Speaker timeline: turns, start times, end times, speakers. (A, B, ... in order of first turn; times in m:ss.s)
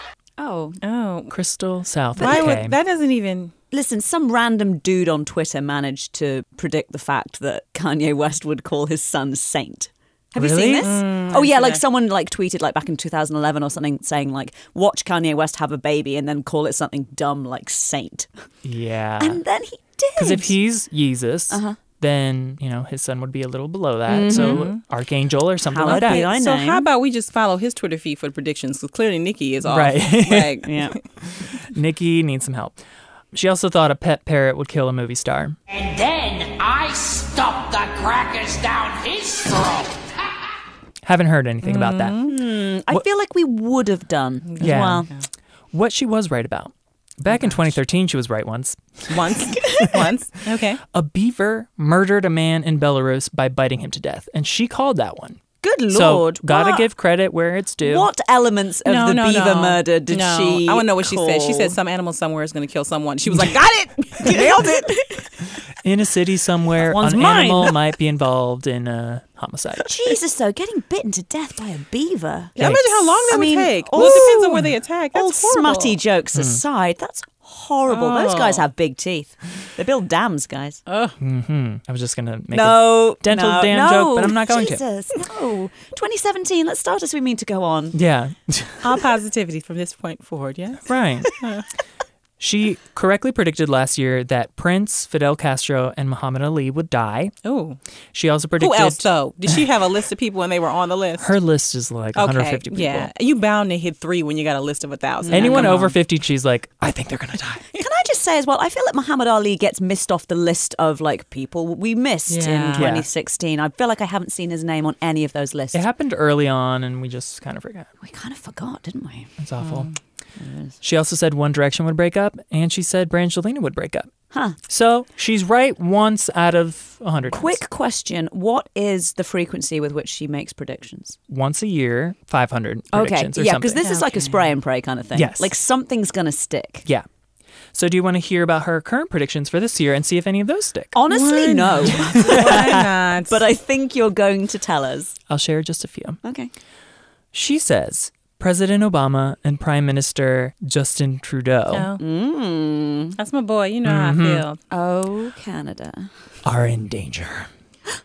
0:00.4-0:00.8 A
0:00.8-0:01.4 B
0:01.3-0:02.8 C
0:02.2-0:03.5 B
0:02.2-0:02.6 A
0:03.7-0:18.3 A
0:10.4-0:11.0 C
0:10.8-0:11.8 B
0:18.6-0:19.4 C
0:19.2-0:20.5 A
0:20.2-0:26.3 C
0:21.5-0:21.8 A
0:24.1-0:24.7 A
0:24.3-0:24.8 B
0:25.7-0:26.9 A
0:25.8-0:31.0 B
0:29.6-0:30.7 C
0:30.6-0:31.0 A
0:31.4-0:32.8 C
0:33.3-0:35.6 C
0:35.7-0:40.2 D
0:41.0-0:42.2 C
0:41.6-0:42.4 B
0:42.2-0:45.1 A
0:44.5-0:45.2 B
0:44.6-0:45.1 C
0:45.7-0:50.1 C
0:47.3-0:47.7 B
0:49.1-0:50.8 B
0:50.6-0:58.1 C
0:55.6-0:56.9 A
0:57.8-1:01.8 A
0:58.8-1:05.0 B
1:04.2-1:05.2 A
1:05.7-1:09.9 C
1:06.8-1:07.8 A
1:09.8-1:12.7 A
1:12.6-1:16.0 B
1:12.6-1:14.7 C
1:13.3-1:14.6 A
1:15.1-1:20.8 A
1:16.3-1:16.6 C
1:17.9-1:18.6 B
1:20.8-1:21.2 B
1:21.2-1:24.8 C
1:22.5-1:28.0 A
1:27.9-1:29.0 C
1:28.8-1:31.7 B
1:30.8-1:31.3 C
1:32.4-1:37.3 C
1:37.4-1:37.8 B
1:38.1-1:39.6 C
1:38.6-1:41.3 B
1:41.2-1:43.1 C
1:42.1-1:46.0 B
1:45.2-1:45.8 A
1:45.3-1:47.7 C
1:47.7-1:55.8 A
1:52.3-1:52.9 B
1:52.7-1:53.1 C
1:55.7-1:57.9 C
1:58.0-1:59.3 A
1:59.4-1:59.9 C
1:59.6-1:59.9 B
2:00.4-2:00.7 A
2:00.8-2:04.1 C
2:04.3-2:04.6 A
2:04.7-2:07.6 C
2:07.3-2:11.2 A
2:11.3-2:13.8 C
2:12.9-2:16.9 A
2:13.8-2:14.5 B
2:15.1-2:15.5 C
2:17.7-2:21.0 C
2:20.9-2:25.1 A
2:21.1-2:23.4 B
2:21.8-2:22.9 C
2:25.3-2:26.2 C
2:26.2-2:26.5 A
2:27.3-2:31.9 C
2:31.7-2:32.0 B
2:32.0-2:33.2 A
2:33.2-2:34.6 B
2:33.8-2:34.4 C
2:34.7-2:36.1 A
2:36.4-2:37.5 C